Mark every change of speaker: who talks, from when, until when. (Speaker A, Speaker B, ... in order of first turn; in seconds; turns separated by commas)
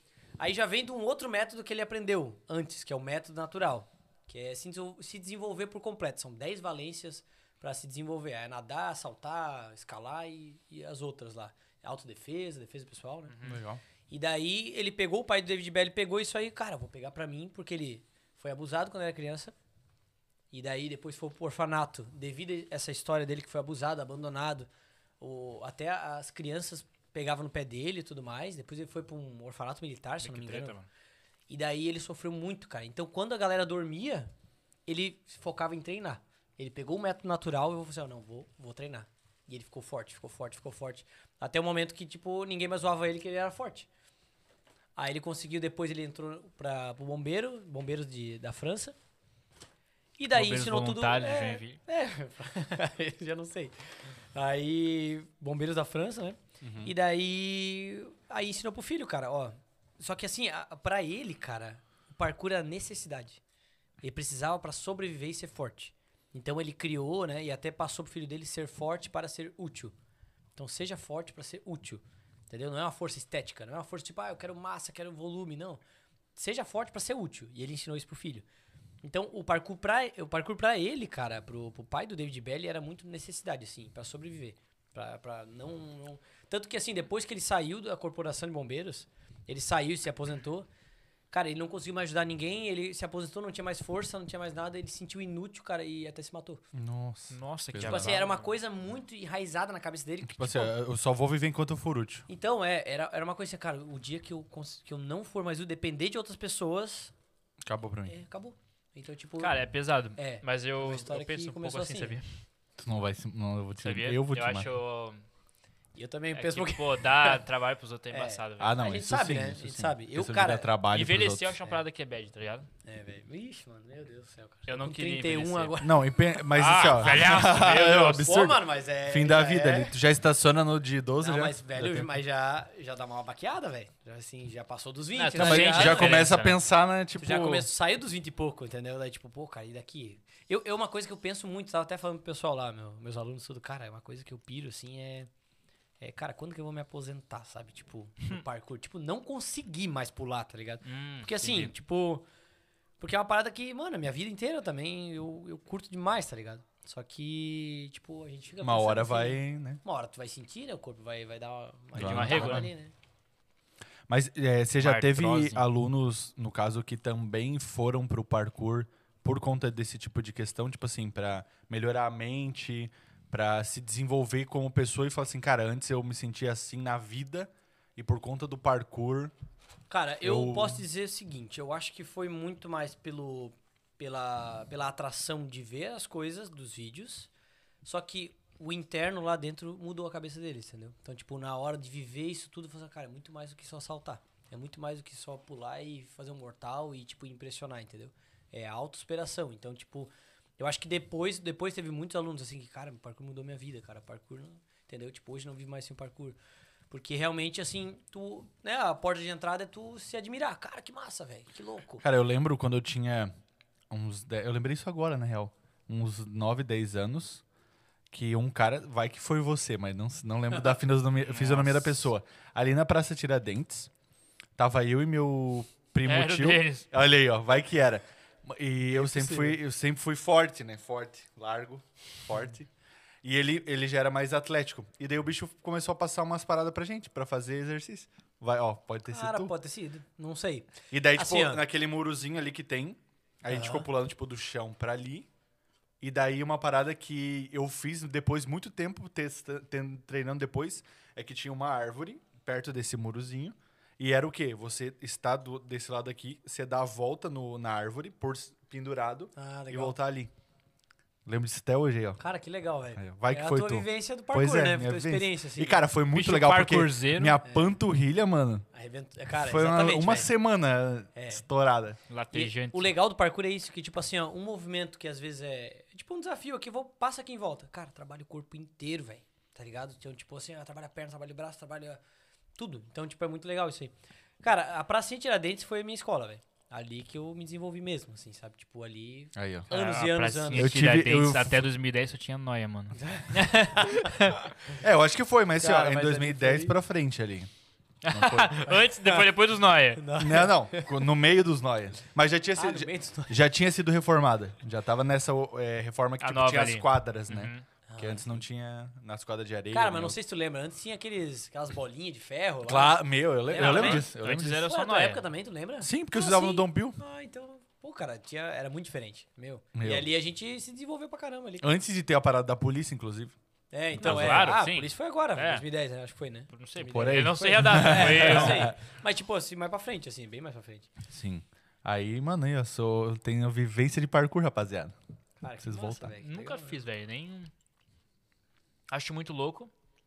Speaker A: 0.4-13.3, Speaker B: 13.3-13.6, Speaker C: 13.4-13.8, Speaker A: 14.1-19.5, Speaker A: 20.5-24.7, Speaker A: 25.2-30.8, Speaker B: 30.2-30.9, Speaker A: 31.5-34.3, Speaker A: 34.9-43.9, Speaker A: 45.0-48.9, Speaker A: 50.2-63.4, Speaker B: 50.3-51.8, Speaker C: 56.6-56.9, Speaker A: 64.0-69.9, Speaker A: 70.5-75.8, Speaker A: 76.3-78.4, Speaker A: 79.0-90.7, Speaker A: 91.3-96.6, Speaker C: 96.7-98.2, Speaker B: 97.3-98.5, Speaker A: 97.8-100.7, Speaker C: 100.2-102.2, Speaker A: 102.3-107.1, Speaker C: 107.6-108.1, Speaker A: 108.1-112.2, Speaker B: 109.4-112.4, Speaker C: 112.8-114.7, Speaker B: 113.8-115.2, Speaker A: 116.0-117.4, Speaker B: 116.3-118.8, Speaker A: 118.1-120.7, Speaker C: 118.6-121.5, Speaker B: 120.9-122.7, Speaker A: 122.8-126.2, Speaker B: 124.7-125.7, Speaker C: 125.8-132.1, Speaker B: 126.5-128.3, Speaker A: 127.0-130.0, Speaker A: 131.2-136.2, Speaker B: 135.2-136.6, Speaker C: 135.3-137.7, Speaker A: 137.2-145.3, Speaker A: 146.0-152.3, Speaker B: 150.8-151.7, Speaker A: 153.0-162.9, Speaker C: 158.6-159.8, Speaker C: 161.9-162.7, Speaker B: 162.0-162.7, Speaker C: 164.1-179.3, Speaker B: 164.8-165.6, Speaker A: 179.9-187.3, Speaker C: 180.2-180.8, Speaker A: 187.8-206.4, Speaker A: 206.9-212.0, Speaker C: 212.0-213.3, Speaker C: 213.9-217.4, Speaker C: 218.1-223.9, Speaker B: 221.2-222.0, Speaker C: 224.6-232.7, Speaker B: 226.0-226.8, Speaker A: 228.9-229.6, Speaker C: 233.2-239.5, Speaker A: 239.1-241.6, Speaker C: 240.9-245.3, Speaker A: 243.5-243.9, Speaker C: 246.0-260.3, Speaker A: 259.3-260.0, Speaker C: 261.2-262.2, Speaker A: 262.2-265.8, Speaker C: 262.9-268.6, Speaker B: 266.1-267.4, Speaker A: 267.4-267.7, Speaker A: 268.7-270.3, Speaker C: 269.3-272.0, Speaker A: 271.1-271.4, Speaker B: 272.1-272.9, Speaker A: 272.3-282.0, Speaker A: 282.6-290.7, Speaker C: 289.3-289.7, Speaker B: 289.7-294.4, Speaker C: 290.5-291.6, Speaker A: 292.9-294.2, Speaker C: 294.7-297.5, Speaker A: 295.6-296.7, Speaker B: 298.0-300.0, Speaker C: 298.1-298.7, Speaker A: 299.9-301.1, Speaker C: 300.2-310.2, Speaker A: 302.5-303.4, Speaker B: 306.2-307.6, Speaker A: 307.9-308.4, Speaker A: 309.7-321.7, Speaker C: 312.6-314.6, Speaker B: 313.5-315.2, Speaker C: 315.8-317.0, Speaker C: 319.7-320.1, Speaker C: 321.6-323.4, Speaker A: 323.7-330.9, Speaker C: 324.0-324.5, Speaker B: 324.0-325.6, Speaker B: 326.5-328.7, Speaker C: 326.9-328.7, Speaker C: 331.1-334.9, Speaker A: 335.4-336.8, Speaker C: 335.6-336.1, Speaker B: 336.2-337.5, Speaker B: 338.9-339.7